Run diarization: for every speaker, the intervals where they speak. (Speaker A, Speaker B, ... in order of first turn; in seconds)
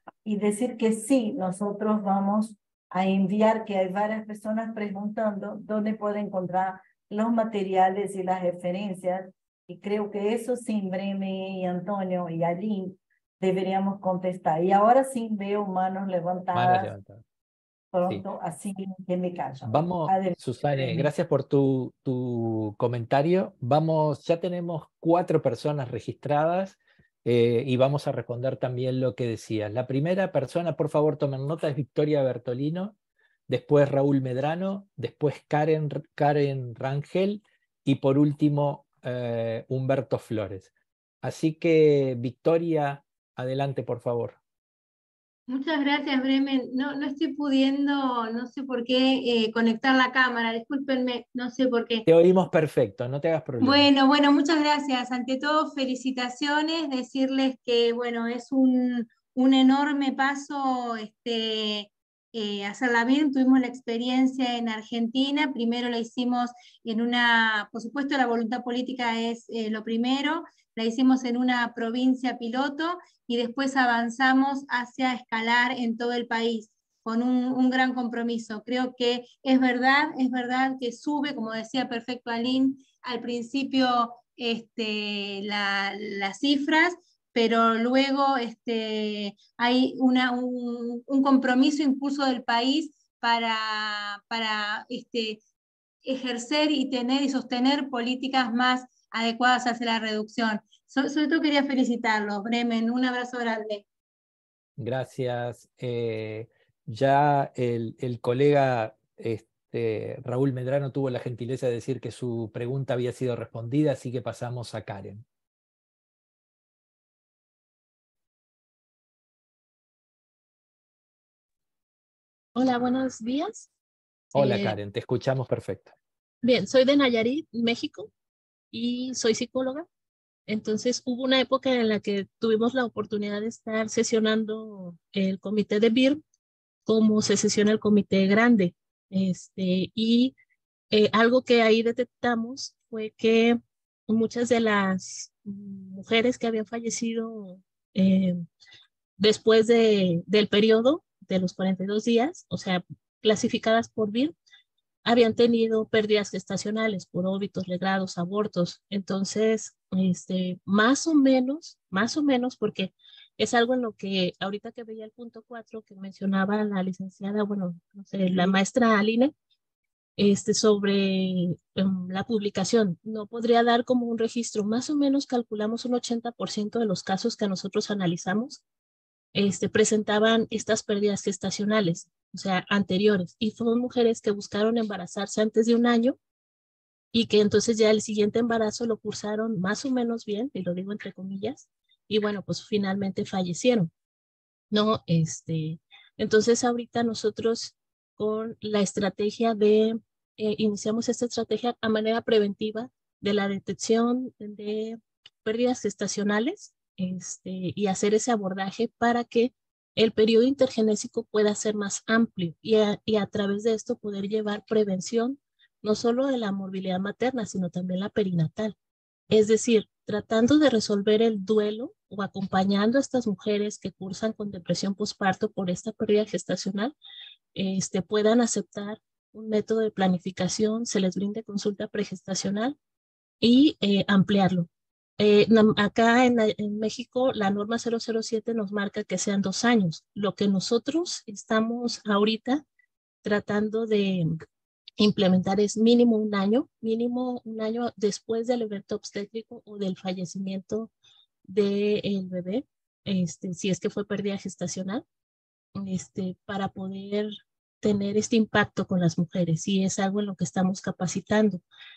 Speaker A: 0.2-16.9, 17.9-21.1
Speaker B: 16.5-17.2, 19.6-33.0, 33.5-40.7, 41.2-44.4, 52.1-53.9, 104.8-115.2, 124.3-126.0
Speaker C: 45.5-52.1, 53.6-95.4, 96.0-103.8
Speaker D: 122.5-123.7, 124.3-124.8, 126.4-128.1, 128.7-129.9, 130.5-136.2, 136.9-140.3, 140.9-148.4, 149.2-154.3, 155.1-169.3, 170.2-178.6, 179.3-186.2, 187.1-193.9, 194.7-218.8, 219.3-226.9, 227.6-232.8, 233.4-234.7, 235.2-242.6, 243.2-244.4, 245.0-250.9, 251.5-255.0, 255.8-261.6